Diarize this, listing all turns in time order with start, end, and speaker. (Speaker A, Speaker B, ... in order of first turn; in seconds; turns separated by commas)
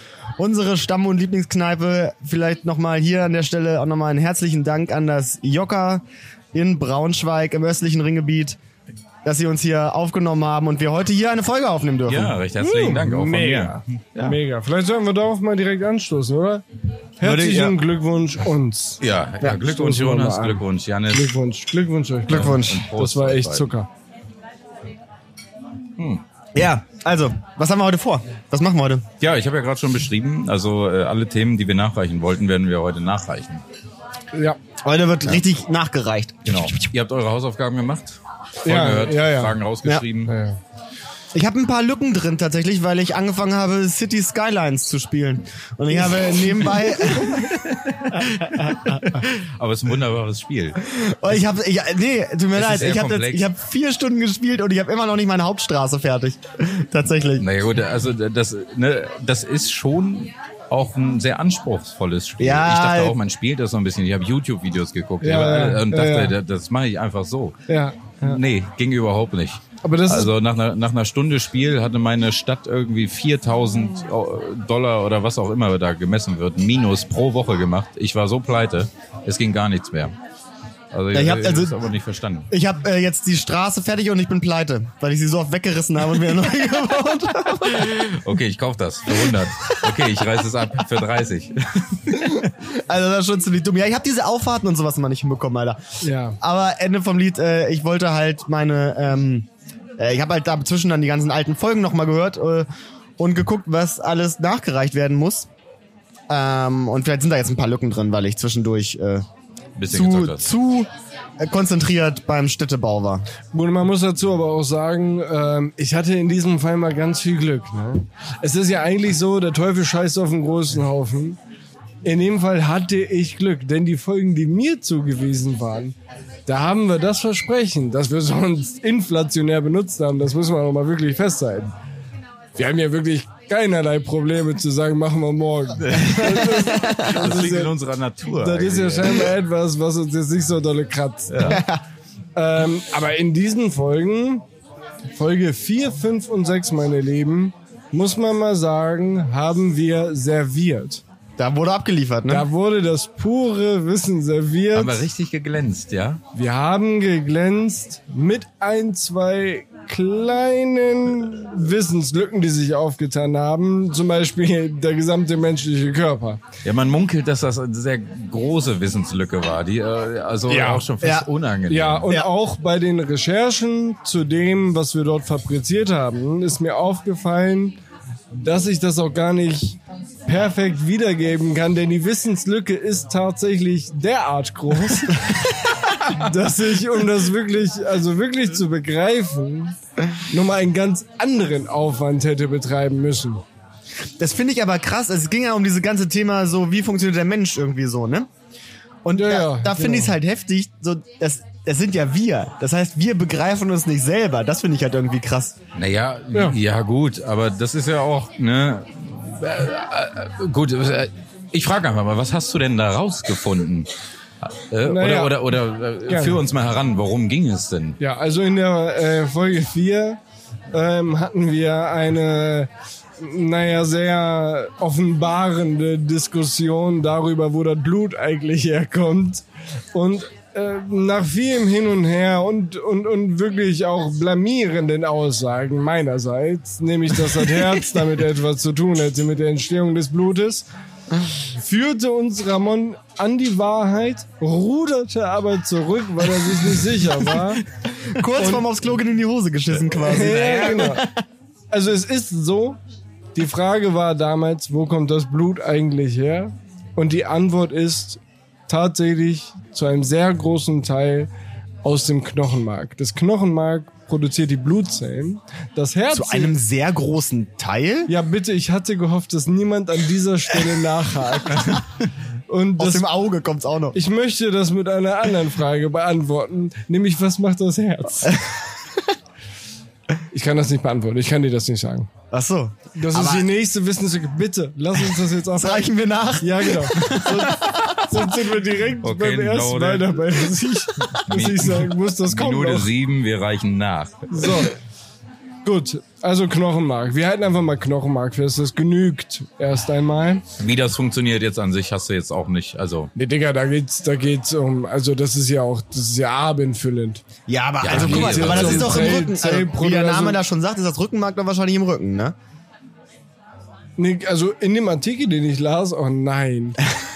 Speaker A: 0.4-8.6, Speaker A: 9.2-12.4, Speaker B: 12.1-14.4, Speaker C: 12.6-16.6, Speaker C: 17.2-23.9, Speaker A: 17.2-17.8, Speaker B: 19.0-21.3, Speaker A: 22.3-22.9, Speaker B: 22.3-23.7, Speaker A: 26.6-29.1, Speaker B: 29.2-33.6, Speaker C: 34.3-34.6, Speaker A: 34.8-36.8, Speaker B: 36.5-40.3, Speaker C: 38.6-39.6, Speaker C: 40.3-40.6, Speaker A: 41.3-47.6, Speaker B: 47.2-51.4, Speaker A: 48.2-49.0, Speaker A: 50.8-57.5, Speaker B: 52.5-53.5, Speaker B: 57.4-67.6, Speaker A: 62.4-63.2, Speaker C: 65.2-66.3, Speaker C: 67.7-68.4, Speaker B: 68.2-80.2, Speaker C: 69.8-70.3, Speaker B: 80.9-82.5, Speaker A: 81.1-81.8, Speaker A: 82.5-88.1, Speaker B: 87.7-92.4, Speaker A: 89.2-90.1, Speaker A: 92.4-95.8, Speaker C: 96.0-96.4, Speaker A: 96.4-102.7, Speaker A: 103.2-105.5, Speaker A: 106.3-109.2, Speaker B: 109.8-110.5, Speaker A: 109.9-113.3, Speaker C: 113.5-121.4, Speaker C: 122.0-126.0, Speaker C: 126.5-131.7, Speaker C: 132.6-137.7, Speaker B: 135.8-139.3, Speaker A: 136.6-137.1, Speaker C: 138.2-141.7, Speaker B: 141.3-141.6, Speaker A: 141.5-141.8, Speaker C: 142.4-144.4, Speaker C: 145.1-151.0, Speaker A: 151.4-152.5, Speaker C: 152.3-155.1, Speaker B: 154.7-156.2, Speaker C: 156.3-166.4, Speaker B: 166.6-172.1, Speaker C: 170.5-170.9, Speaker A: 171.0-171.3, Speaker C: 171.7-177.8, Speaker C: 178.3-185.3, Speaker C: 185.9-189.8, Speaker C: 190.3-193.4, Speaker A: 194.2-198.3, Speaker A: 199.1-205.6, Speaker C: 199.2-200.1, Speaker B: 205.7-213.9, Speaker B: 214.4-218.0, Speaker C: 214.8-215.5, Speaker C: 216.1-216.4, Speaker C: 218.0-220.2, Speaker C: 220.7-240.7, Speaker C: 241.3-247.6, Speaker A: 248.0-251.1, Speaker C: 248.4-248.7, Speaker B: 249.8-251.1, Speaker C: 250.0-251.1, Speaker C: 251.7-252.8, Speaker C: 253.3-261.3, Speaker C: 261.8-266.6, Speaker A: 266.1-268.1, Speaker C: 268.1-271.9, Speaker C: 272.5-273.1, Speaker A: 272.8-274.0, Speaker C: 273.9-278.6, Speaker C: 280.3-282.1, Speaker A: 282.3-283.5, Speaker C: 283.0-292.9, Speaker A: 285.5-288.3, Speaker B: 289.0-290.5, Speaker B: 291.2-294.7, Speaker C: 294.3-294.8, Speaker C: 295.6-300.4, Speaker B: 300.6-303.1, Speaker C: 303.1-307.2, Speaker A: 307.5-312.4, Speaker B: 307.8-309.2, Speaker C: 307.9-310.4, Speaker C: 314.0-316.9